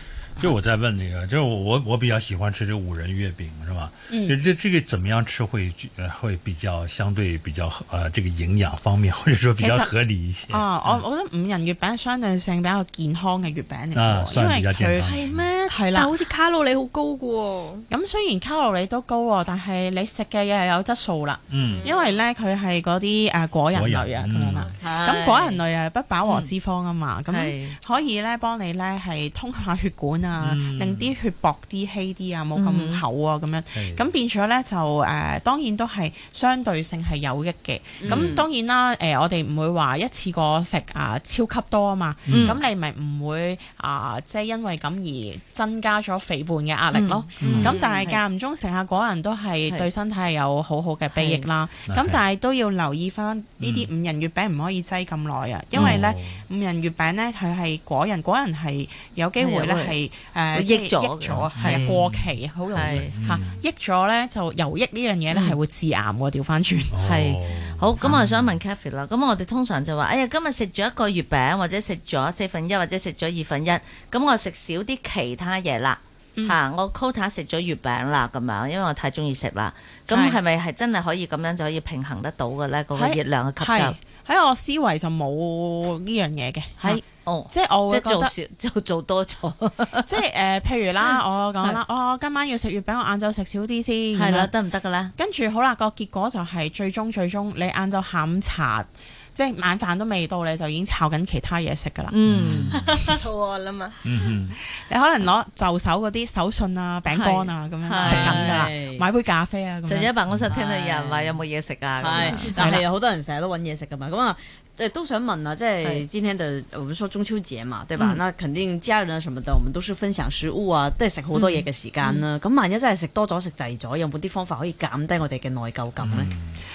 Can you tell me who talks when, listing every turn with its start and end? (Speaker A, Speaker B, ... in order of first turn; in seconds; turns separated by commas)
Speaker A: 0.4-11.0, Speaker B: 4.1-4.4, Speaker B: 9.6-9.9, Speaker B: 10.5-15.2, Speaker A: 13.9-15.5, Speaker C: 15.0-17.9, Speaker B: 15.7-16.3, Speaker B: 17.9-66.9, Speaker A: 21.5-21.9, Speaker C: 21.7-22.2, Speaker A: 23.7-24.7, Speaker D: 24.8-25.6, Speaker E: 26.2-26.5, Speaker E: 27.3-27.8, Speaker A: 30.4-31.1, Speaker E: 32.5-33.0, Speaker A: 33.7-34.1, Speaker D: 38.0-38.4, Speaker A: 42.3-42.6, Speaker E: 42.3-42.6, Speaker E: 46.9-48.2, Speaker A: 47.4-47.8, Speaker E: 51.2-51.5, Speaker A: 51.9-52.2, Speaker A: 53.6-53.9, Speaker A: 55.7-56.4, Speaker E: 55.8-56.0, Speaker E: 59.4-60.0, Speaker E: 60.5-62.0, Speaker A: 61.5-63.6, Speaker E: 62.7-63.1, Speaker E: 65.3-65.6, Speaker A: 66.9-68.6, Speaker E: 67.0-84.0, Speaker B: 80.1-80.4, Speaker B: 82.9-88.3, Speaker E: 86.8-90.1, Speaker B: 90.0-94.5, Speaker E: 94.2-95.1, Speaker B: 95.2-102.1, Speaker E: 102.1-102.7, Speaker A: 102.3-103.0, Speaker D: 102.8-103.1, Speaker C: 103.1-104.0, Speaker A: 104.0-104.6, Speaker B: 104.8-110.1, Speaker E: 107.1-108.7, Speaker D: 108.0-109.0, Speaker E: 109.8-112.8, Speaker A: 110.3-110.5, Speaker D: 110.5-111.4, Speaker D: 112.0-126.3, Speaker B: 112.5-112.8, Speaker E: 121.3-122.2, Speaker A: 126.0-126.7